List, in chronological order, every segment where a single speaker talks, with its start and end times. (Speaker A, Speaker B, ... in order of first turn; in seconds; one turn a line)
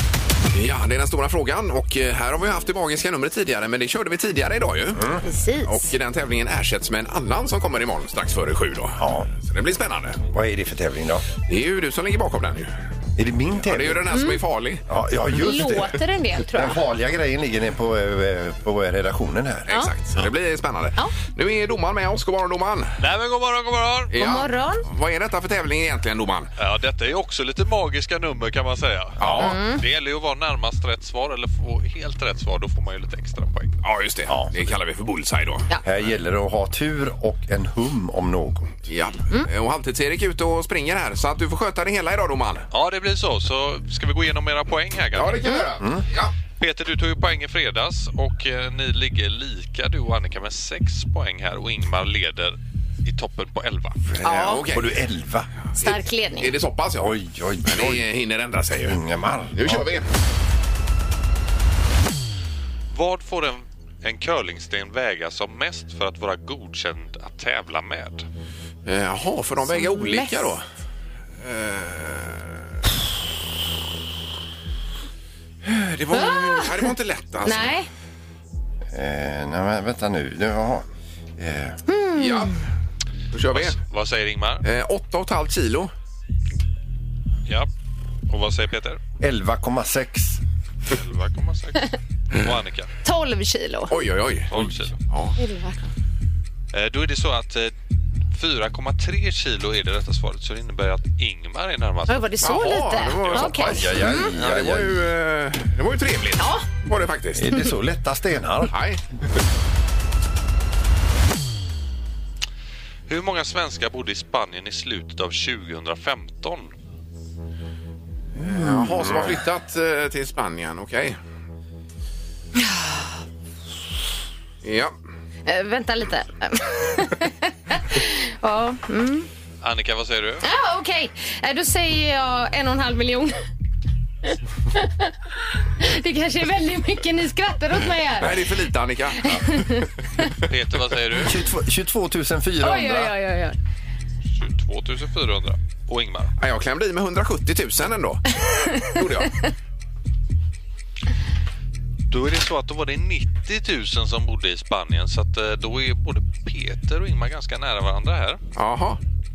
Speaker A: 0.5-5.1
Speaker B: 5.0-5.2
Speaker C: 5.2-5.9
Speaker A: 5.6-10.2
Speaker B: 9.0-9.3
Speaker B: 10.3-11.2
Speaker A: 11.4-12.7
Speaker B: 13.2-14.1
Speaker A: 13.6-14.8
Speaker C: 14.1-14.4
Speaker B: 14.9-16.0
Speaker C: 15.4-16.8
Speaker B: 16.5-19.7
Speaker A: 19.7-22.9
Speaker D: 23.0-24.1
Speaker A: 24.1-26.5
Speaker C: 24.1-24.8
Speaker D: 26.6-33.8
Speaker A: 29.2-29.5
Speaker C: 29.4-29.8
Speaker A: 33.8-35.7
Speaker B: 35.8-38.8
Speaker A: 38.9-42.7
Speaker D: 42.7-45.6
Speaker A: 45.1-46.3
Speaker D: 46.6-54.0
Speaker C: 54.2-54.6
Speaker A: 54.2-55.0
Speaker B: 54.4-55.5
Speaker C: 55.8-56.5
Speaker A: 55.8-59.0
Speaker B: 57.0-58.0
Speaker B: 58.8-59.9
Speaker A: 59.5-60.0
Speaker D: 62.9-68.2
Speaker A: 68.8-70.6
Speaker C: 69.7-70.5
Speaker A: 71.4-72.6
Speaker A: 75.6-77.7
Speaker C: 76.1-76.9
Speaker C: 77.4-77.9
Speaker B: 78.9-80.8
Speaker B: 81.4-81.8
Speaker C: 81.9-82.5
Speaker A: 82.2-82.6
Speaker A: 83.3-83.8
Speaker D: 83.5-84.6
Speaker A: 84.6-85.9
Speaker D: 88.3-89.0
Speaker B: 89.2-90.4
Speaker D: 90.9-92.9
Speaker C: 93.0-93.9
Speaker A: 93.9-95.3
Speaker D: 94.5-95.0
Speaker C: 95.4-95.9
Speaker D: 96.7-97.7
Speaker D: 98.3-102.7
Speaker C: 102.1-104.3
Speaker A: 102.4-107.5
Speaker D: 103.3-103.6
Speaker B: 103.6-105.0
Speaker C: 106.4-106.6
Speaker B: 107.3-108.7
Speaker A: 108.7-109.0
Speaker D: 113.1-116.7
Speaker A: 118.4-121.2
Speaker B: 118.4-119.4
Speaker C: 122.6-123.1
Speaker A: 124.6-124.9
Speaker C: 125.5-129.3
Speaker D: 129.6-130.4
Speaker C: 130.4-133.4
Speaker C: 134.2-138.4
Speaker A: 138.2-139.2
Speaker C: 139.2-139.9
Speaker D: 140.5-141.4
Speaker B: 141.2-143.1
Speaker C: 142.6-143.5
Speaker D: 144.3-146.3
Speaker A: 146.4-149.3
Speaker D: 152.1-158.4
Speaker A: 158.6-159.0